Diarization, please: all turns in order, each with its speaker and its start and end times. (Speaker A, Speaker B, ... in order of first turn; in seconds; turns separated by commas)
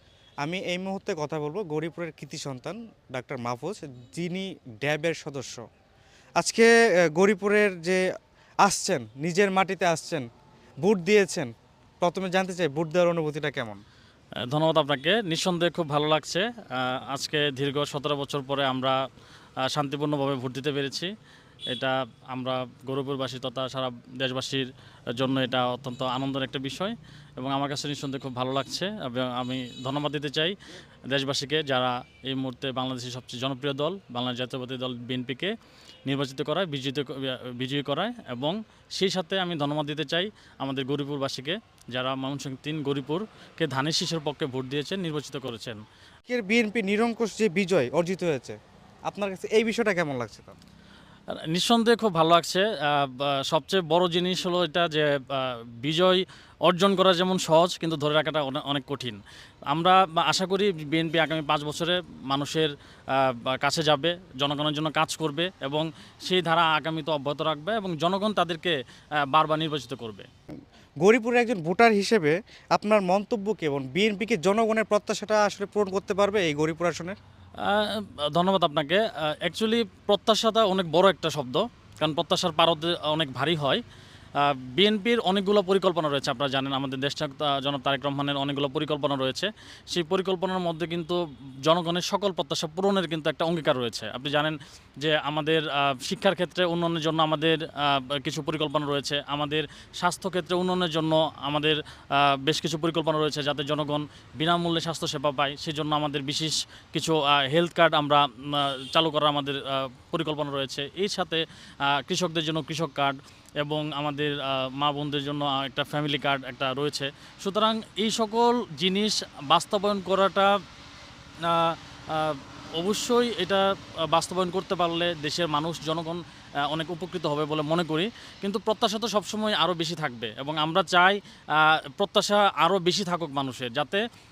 Speaker A: 0.4-5.6, Speaker A: 6.4-8.0, Speaker A: 8.6-10.2, Speaker A: 10.8-11.5, Speaker A: 12.0-13.8, Speaker B: 14.4-19.0, Speaker B: 19.7-21.1, Speaker B: 21.7-30.6, Speaker B: 31.1-35.5, Speaker B: 36.1-45.8, Speaker A: 46.3-48.6, Speaker A: 49.1-50.6, Speaker B: 51.4-59.2, Speaker B: 59.7-68.8, Speaker B: 69.3-70.3, Speaker A: 71.0-77.2, Speaker B: 77.6-83.8, Speaker B: 84.4-120.5, Speaker B: 121.4-134.0